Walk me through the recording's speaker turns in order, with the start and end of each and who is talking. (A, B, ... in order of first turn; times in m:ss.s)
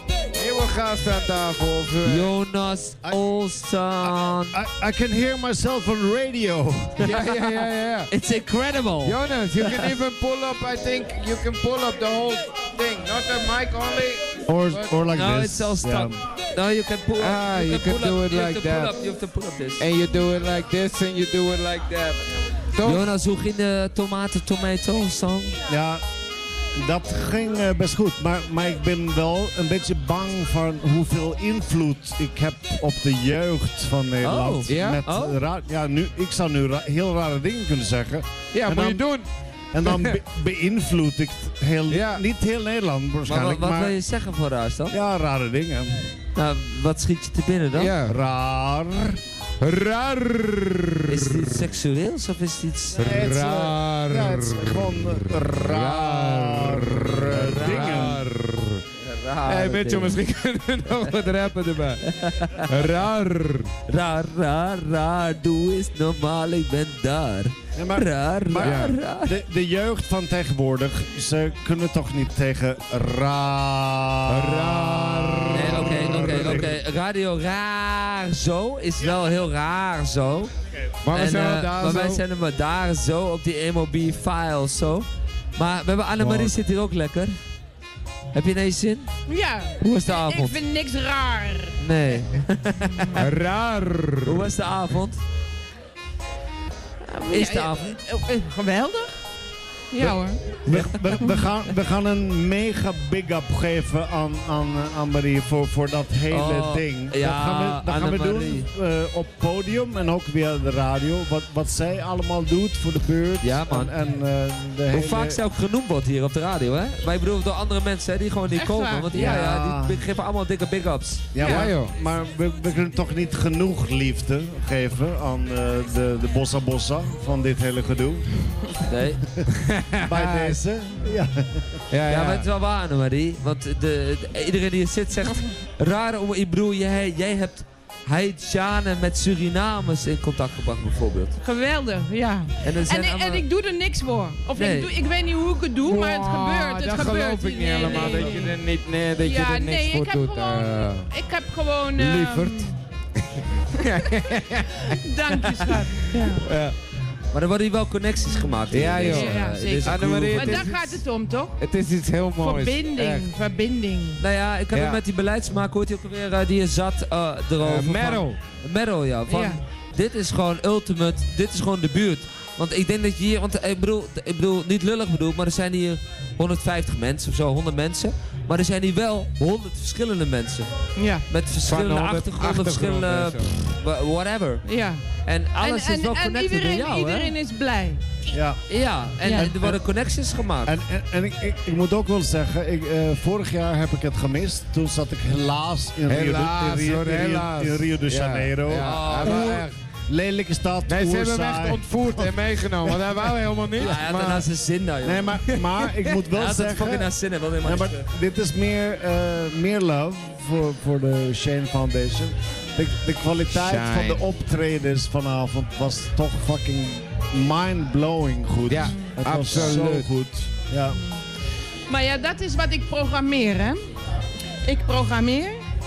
0:00.3-0:02.3 A
0:02.0-0:04.5 B
0:04.0-0:07.1 C
0:07.0-0:08.1 A
0:07.0-0:07.4 B
0:08.1-0:09.9 B
0:09.0-0:14.9 A
0:14.4-0:16.2 C
0:15.1-0:19.9 B
0:17.1-0:18.9 A
0:19.8-0:22.2 A
0:22.8-0:23.1 A
0:22.8-0:25.6 B
0:25.7-0:26.0 C
0:26.8-0:39.0 C
0:34.2-0:35.4 B
0:34.7-0:35.0 A
0:38.5-0:39.3 A
0:39.7-0:44.0 C
0:39.8-0:40.2 A
0:41.9-0:42.2 A
0:43.2-0:44.9 B
0:44.9-0:46.1 C
0:46.4-0:48.0 B
0:47.7-0:48.2 A
0:48.0-0:49.2 C
0:49.6-0:51.5 A
0:51.1-0:53.0 B
0:53.0-0:58.8 A
0:53.0-0:58.2 C
0:57.3-0:58.3 B
0:59.0-1:00.2 B
0:59.4-1:02.0 A
1:02.1-1:02.7 B
1:02.7-1:03.7 A
1:03.9-1:09.4 B
1:07.7-1:16.7 C
1:08.6-1:09.0 A
1:14.3-1:16.8 A
1:15.5-1:20.5 B
1:19.0-1:19.4 C
1:21.0-1:22.2 A
1:21.1-1:27.3 B
1:26.2-1:26.5 A
1:28.3-1:29.1 B
1:29.3-1:31.8 D
1:29.8-1:30.6 B
1:31.8-1:33.3 B
1:33.2-1:34.5 A
1:34.2-1:35.2 B
1:37.0-1:39.2 D
1:37.2-1:38.0 B
1:39.9-1:40.4 D
1:40.6-1:55.4 C
1:40.7-1:41.0 B
1:46.3-1:48.7 B
1:53.4-1:53.9 B
1:54.9-2:01.4 B
1:58.6-1:59.1 D
1:59.1-2:00.0 C
2:01.3-2:08.7 C
2:01.4-2:01.7 D
2:01.4-2:01.9 A
2:08.8-2:09.2 B
2:09.6-2:10.6 A
2:10.0-2:11.8 C
2:11.9-2:12.5 A
2:12.1-2:21.4 B
2:21.4-2:28.6 D
2:22.6-2:23.4 B
2:24.6-2:24.9 B
2:25.8-2:31.1 A
2:29.2-2:32.7 D
2:32.0-2:35.0 A
2:34.9-2:36.4 D
2:36.4-2:36.8 A
2:37.3-2:40.7 B
2:38.7-2:41.0 A
2:38.9-2:41.6 D
2:41.6-2:43.3 A
2:42.4-2:44.2 D
2:44.2-3:00.7 B
2:44.7-2:45.0 A
2:47.6-2:48.4 A
2:49.3-2:49.6 D
3:01.0-3:01.2 D
3:01.2-3:04.6 B
3:01.7-3:03.6 A
3:04.6-3:05.0 D
3:05.2-3:07.3 B
3:05.6-3:08.0 D
3:08.3-3:08.6 C
3:08.7-3:10.7 B
3:09.2-3:09.5 D
3:09.3-3:09.8 C
3:10.6-3:23.0 C
3:16.1-3:19.8 A
3:18.8-3:19.6 B
3:20.9-3:24.0 A
3:23.8-3:25.4 B
3:23.8-3:24.5 C
3:25.0-3:41.0 C
3:25.5-3:26.0 A
3:26.3-3:28.0 B
3:33.5-3:34.2 A
3:38.7-3:40.1 A
3:38.9-3:39.1 D
3:41.9-3:43.8 D
3:44.6-3:45.6 D